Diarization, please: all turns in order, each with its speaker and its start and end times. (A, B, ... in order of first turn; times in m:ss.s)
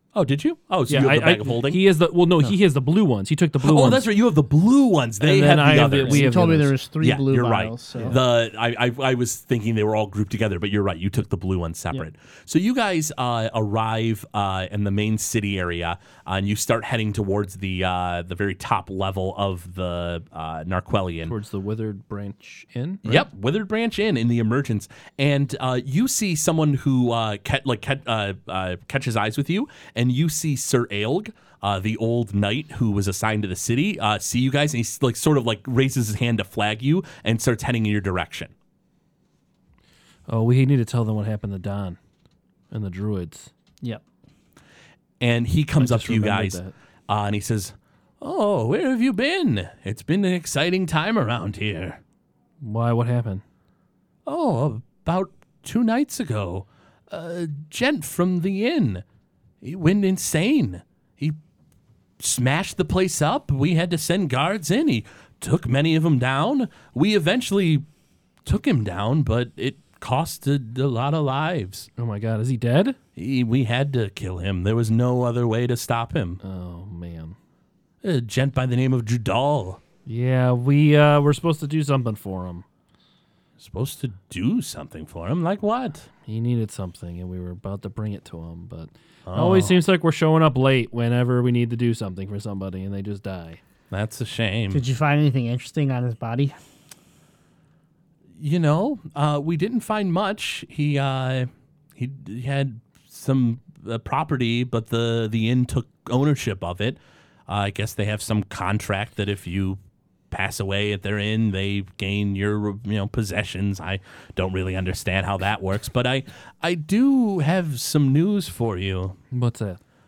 0:00.1-0:01.8 A
0:00.9-0:04.1 B
0:03.6-0:06.4 A
0:05.2-0:06.7 B
0:06.0-0:08.2 C
0:07.0-0:21.3 A
0:21.2-0:23.3 B
0:23.0-0:38.5 A
0:40.3-0:42.0 B
0:42.7-0:43.5 B
0:45.2-0:52.0 A
0:45.8-0:46.7 B
0:52.6-0:53.4 B
0:54.2-0:59.0 A
0:59.6-1:01.4 A
1:02.2-1:07.8 A
1:08.4-1:11.9 A
1:12.0-1:13.0 B
1:13.2-1:16.4 A
1:16.4-1:17.4 B
1:18.0-1:19.8 A
1:20.0-1:22.6 B
1:23.6-1:26.1 A
1:26.2-1:33.6 B
1:29.3-1:29.8 A
1:33.9-1:34.8 A
1:34.7-1:36.6 C
1:38.4-1:49.8 A
1:50.3-1:59.2 A
1:59.3-1:59.8 B